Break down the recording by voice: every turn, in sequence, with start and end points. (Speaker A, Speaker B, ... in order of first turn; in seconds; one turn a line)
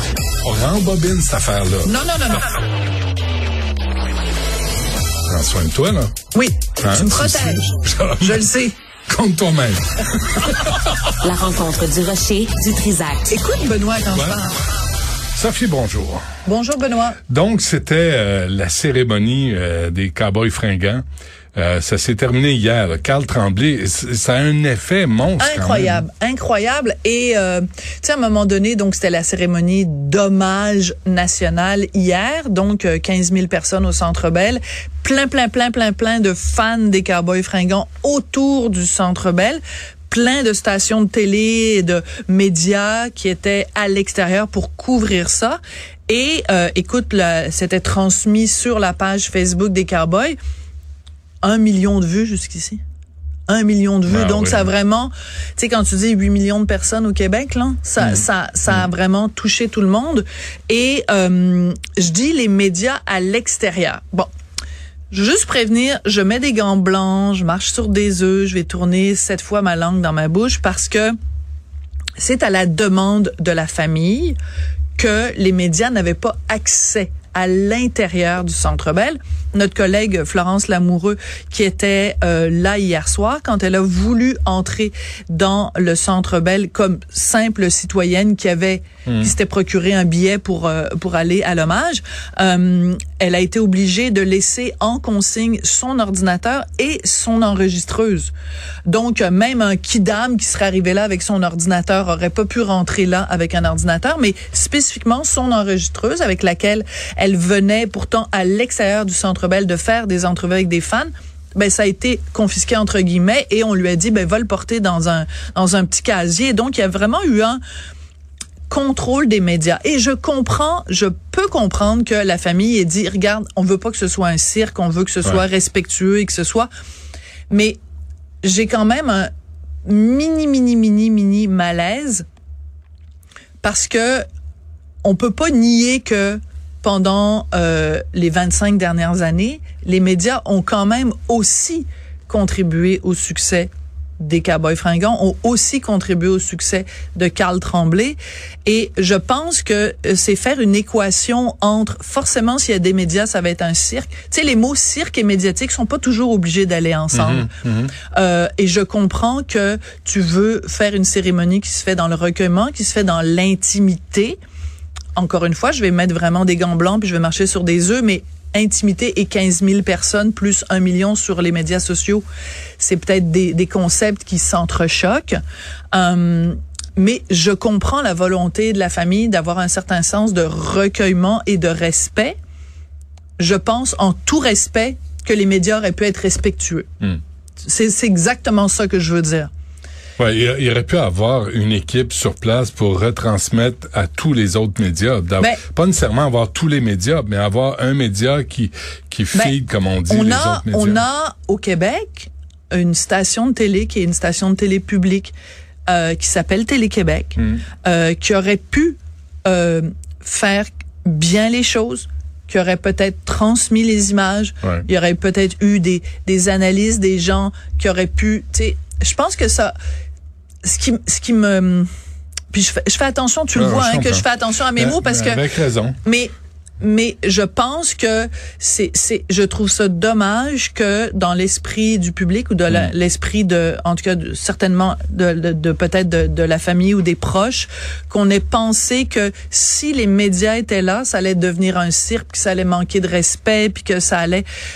Speaker A: 0.4-1.9
Speaker B: 1.8-2.5
Speaker A: 5.3-6.1
Speaker B: 6.3-8.8
Speaker A: 6.8-8.4
Speaker A: 9.1-11.0
Speaker C: 11.2-13.3
Speaker B: 13.3-14.6
Speaker A: 14.1-14.4
Speaker A: 15.3-16.2
Speaker B: 16.4-17.2
Speaker A: 17.3-21.0
Speaker A: 21.5-26.0
Speaker B: 25.4-50.4
Speaker B: 51.4-52.8
Speaker B: 53.5-64.3
Speaker A: 54.1-54.7
Speaker A: 58.0-58.8
Speaker B: 65.1-71.1
Speaker B: 72.2-74.4
Speaker B: 75.0-98.3
Speaker B: 98.9-117.6
Speaker B: 118.7-126.7
Speaker B: 127.5-127.8
Speaker B: 128.4-129.3
Speaker B: 129.8-132.2
Speaker B: 133.6-134.2
Speaker B: 135.0-164.4
Speaker A: 157.1-157.9
Speaker B: 165.1-172.2
Speaker B: 172.8-175.4
Speaker B: 175.9-182.4
Speaker B: 183.4-186.9
Speaker B: 187.6-189.5
Speaker A: 190.2-201.0
Speaker B: 200.1-205.3
Speaker B: 205.9-219.7
Speaker A: 207.4-207.6
Speaker B: 220.6-221.9
Speaker B: 222.5-225.5
Speaker A: 223.5-225.9
Speaker B: 226.0-244.4